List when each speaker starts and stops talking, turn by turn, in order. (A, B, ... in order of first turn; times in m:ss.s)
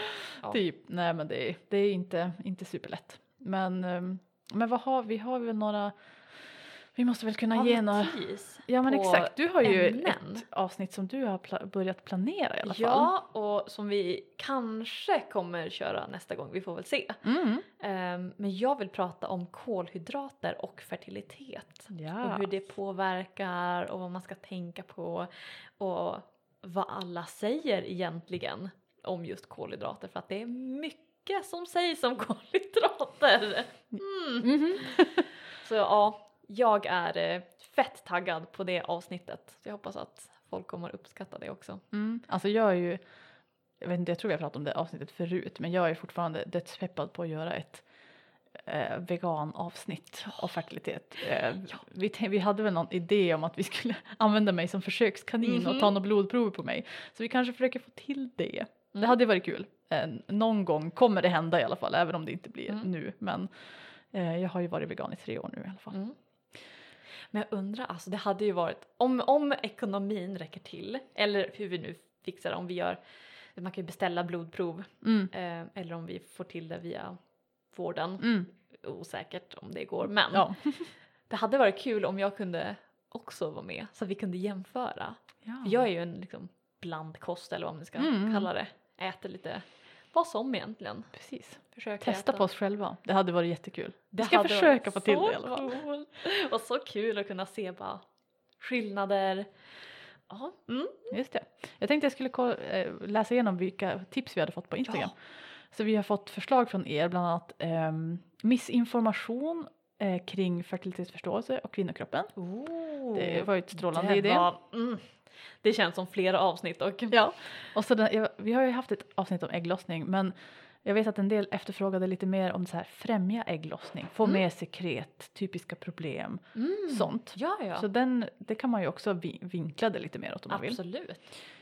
0:00.4-0:13.1 A
0:07.5-0:10.4 B
0:12.6-0:17.3 B
0:17.2-0:17.6 A
0:17.8-0:41.8 B
0:21.9-0:22.5 A
0:34.4-0:35.2 A
0:41.9-0:43.0 A
0:43.8-0:47.9 A
0:48.6-1:06.0 A
0:55.4-0:55.9 B
1:07.3-1:32.5 B
1:15.0-1:15.3 A
1:18.2-1:18.5 A
1:20.3-1:20.9 A
1:25.4-1:25.8 A
1:28.0-1:28.5 A
1:31.1-1:35.8 A
1:34.1-1:38.0 B
1:38.6-1:41.2 B
1:41.1-1:52.4 A
1:52.4-1:57.2 B
1:53.1-1:54.5 A
1:57.1-2:10.8 A
2:06.6-2:07.9 B
2:10.5-2:11.3 B